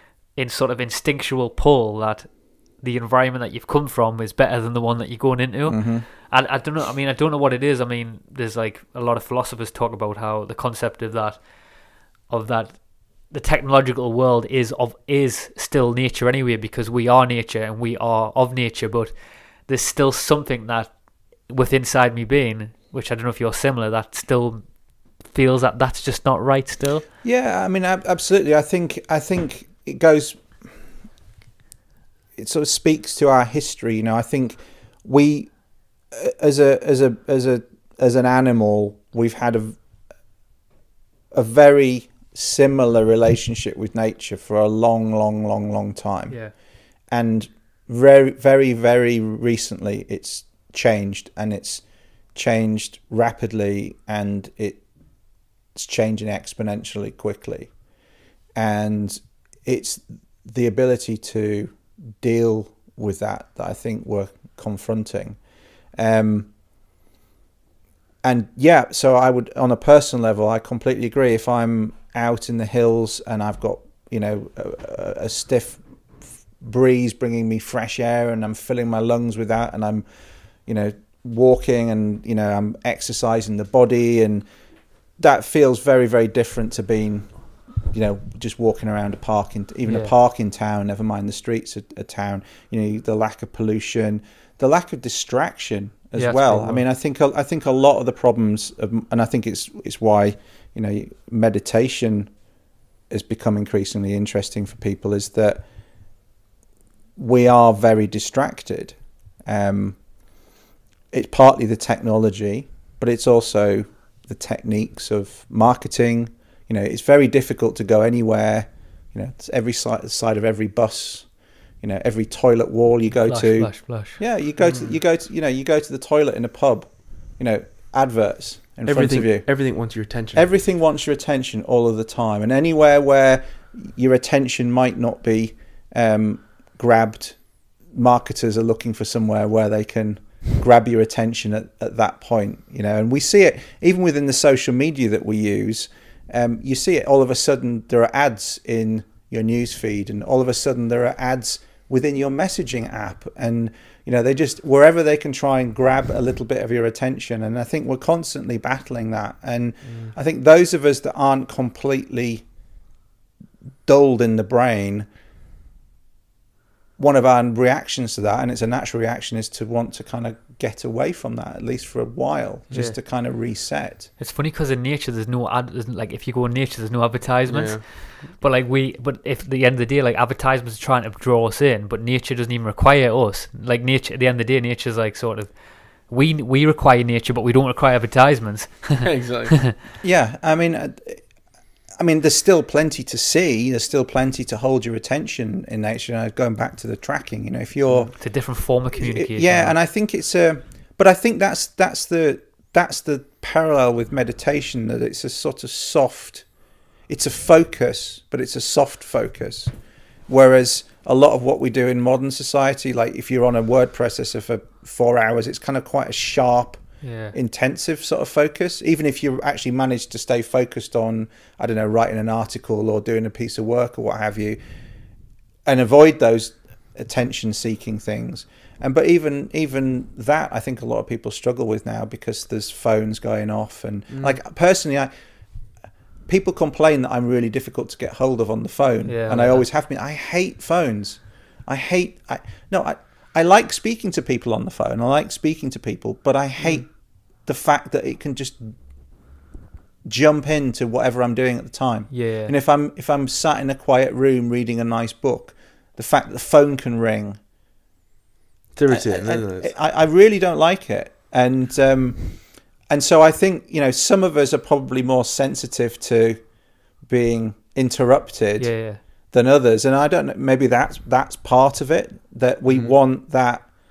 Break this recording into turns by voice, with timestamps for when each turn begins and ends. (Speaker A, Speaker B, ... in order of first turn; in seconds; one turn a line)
Speaker A: 0.3-11.4
Speaker B: 5.7-6.0
Speaker A: 12.3-19.1
Speaker A: 19.7-20.9
Speaker A: 21.5-24.7
Speaker A: 25.2-27.1
Speaker B: 27.2-30.5
Speaker B: 32.4-35.5
Speaker B: 36.1-39.8
Speaker B: 41.3-46.4
Speaker B: 47.1-51.8
Speaker B: 52.4-54.8
Speaker B: 55.8-57.7
Speaker B: 58.6-65.4
Speaker B: 66.0-66.5
Speaker B: 68.2-75.8
Speaker B: 76.6-80.0
Speaker B: 80.7-84.4
Speaker B: 85.2-87.4
Speaker B: 87.9-102.3
Speaker A: 89.9-90.1
Speaker A: 96.2-96.8
Speaker B: 103.1-105.6
Speaker B: 107.2-110.0
Speaker B: 111.1-121.3
Speaker B: 121.8-129.5
Speaker A: 123.3-124.2
Speaker C: 124.6-124.9
Speaker C: 128.9-130.5
Speaker B: 130.3-137.4
Speaker B: 137.9-162.4
Speaker C: 159.8-160.1
Speaker B: 163.9-165.1
Speaker B: 167.0-174.1
Speaker A: 172.7-173.0
Speaker A: 174.2-185.5
Speaker C: 177.5-177.8
Speaker A: 186.1-189.0
Speaker C: 189.0-189.7
Speaker B: 190.0-191.2
Speaker B: 192.0-198.1
Speaker A: 197.9-199.8
Speaker B: 199.0-206.5
Speaker B: 207.1-209.7
Speaker B: 210.3-224.6
Speaker A: 217.0-217.3
Speaker B: 225.7-235.1
Speaker C: 234.1-234.4
Speaker B: 236.3-246.9
Speaker A: 239.1-239.7
Speaker B: 247.5-248.7
Speaker B: 250.1-257.4
Speaker A: 252.1-252.5
Speaker C: 258.8-259.7
Speaker B: 258.9-262.3
Speaker B: 262.9-266.4
Speaker B: 267.1-268.7
Speaker A: 268.6-269.0
Speaker B: 269.3-273.7
Speaker C: 272.7-272.9